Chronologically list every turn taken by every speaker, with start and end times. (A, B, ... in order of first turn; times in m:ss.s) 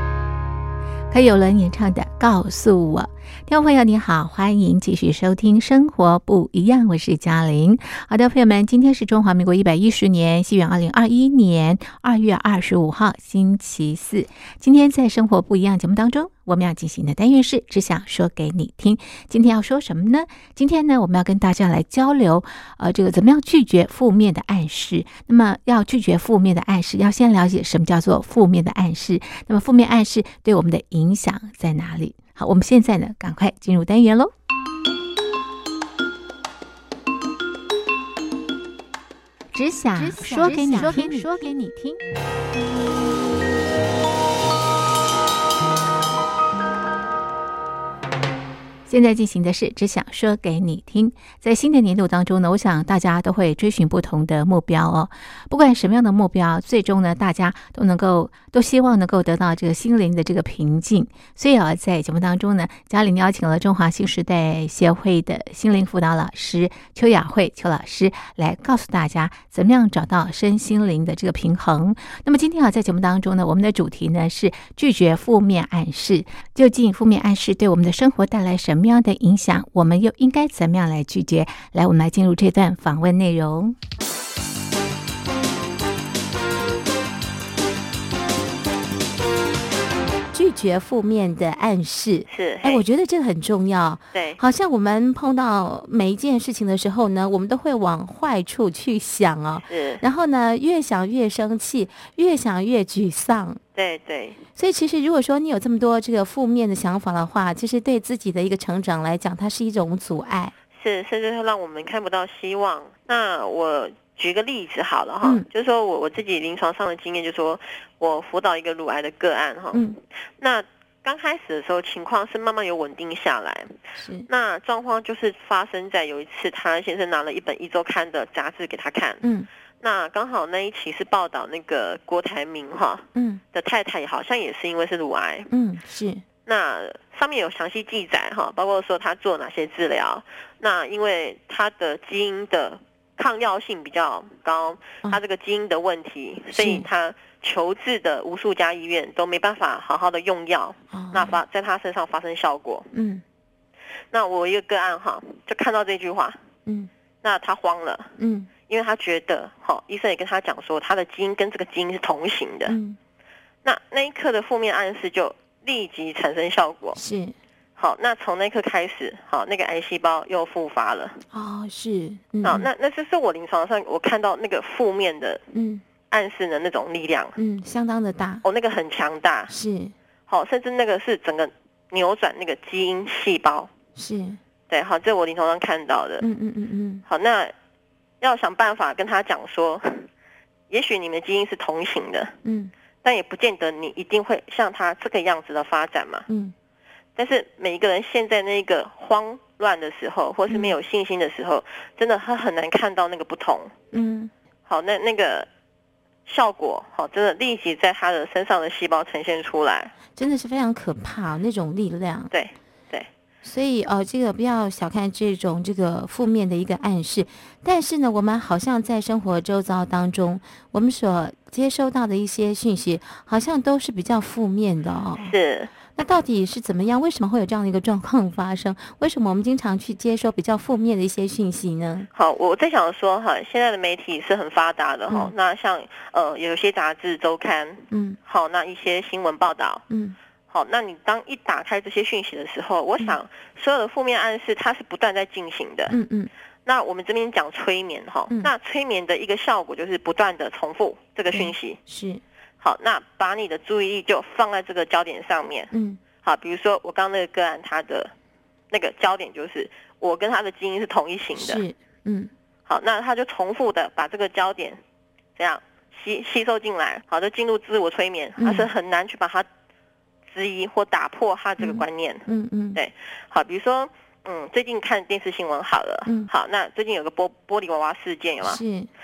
0:01.1-0:34.3 A
0:39.5-0:42.0 A
0:40.0-0:41.4 B
0:48.9-1:23.8 A
1:30.3-1:43.6 B
1:32.3-1:32.8 C
1:34.1-1:34.4 C
1:39.7-1:40.0 C
1:43.8-1:44.4 C
1:44.6-1:50.5 B
1:50.8-1:59.8 C
1:59.7-2:00.0 B
2:00.4-2:03.7 C
2:04.0-2:04.3 B
2:04.3-2:09.2 C
2:09.2-2:09.5 B
2:09.8-2:15.5 C
2:13.2-2:13.4 B
2:15.5-2:16.2 B
2:16.5-2:32.9 C
2:26.5-2:26.9 B
2:30.9-2:31.4 B
2:32.9-2:33.2 B
2:34.1-2:36.4 C
2:37.2-2:38.1 C
2:38.2-2:38.5 B
2:38.7-2:42.8 C
2:42.7-2:43.0 B
2:43.6-2:47.0 C
2:47.0-2:47.4 B
2:47.8-2:51.2 C
2:51.3-2:52.7 B
2:52.4-2:55.4 C
2:55.5-2:55.8 B
2:56.1-2:57.4 C
2:57.4-2:58.4 B
2:58.4-2:59.5 C
2:59.5-2:59.9 B
3:00.3-3:03.7 C
3:04.0-3:04.4 B
3:04.7-3:06.3 C
3:06.2-3:07.0 B
3:07.1-3:07.5 C
3:08.2-3:10.1 C
3:10.7-3:12.3 C
3:12.4-3:12.7 B
3:13.0-3:16.3 C
3:16.3-3:16.5 B
3:17.2-3:23.7 C
3:20.5-3:20.8 B
3:23.9-3:24.3 B
3:24.7-3:25.5 C
3:26.3-3:29.9 C
3:30.1-3:32.3 B
3:32.3-3:33.1 C
3:33.4-3:45.3 B
3:45.2-3:45.7 C
3:46.0-3:52.1 B
3:52.1-3:59.8 C
3:57.9-3:58.2 B
3:59.9-4:00.2 B
4:00.5-4:06.0 C
4:05.9-4:06.3 B
4:06.7-4:11.8 C
4:11.3-4:12.2 B
4:12.6-4:18.1 C
4:15.7-4:16.0 B
4:18.7-4:21.6 C
4:21.4-4:22.3 B
4:22.7-4:24.8 C
4:25.4-4:29.5 C
4:28.4-4:28.7 B
4:30.3-4:38.6 C
4:31.6-4:32.8 B
4:38.4-4:38.9 B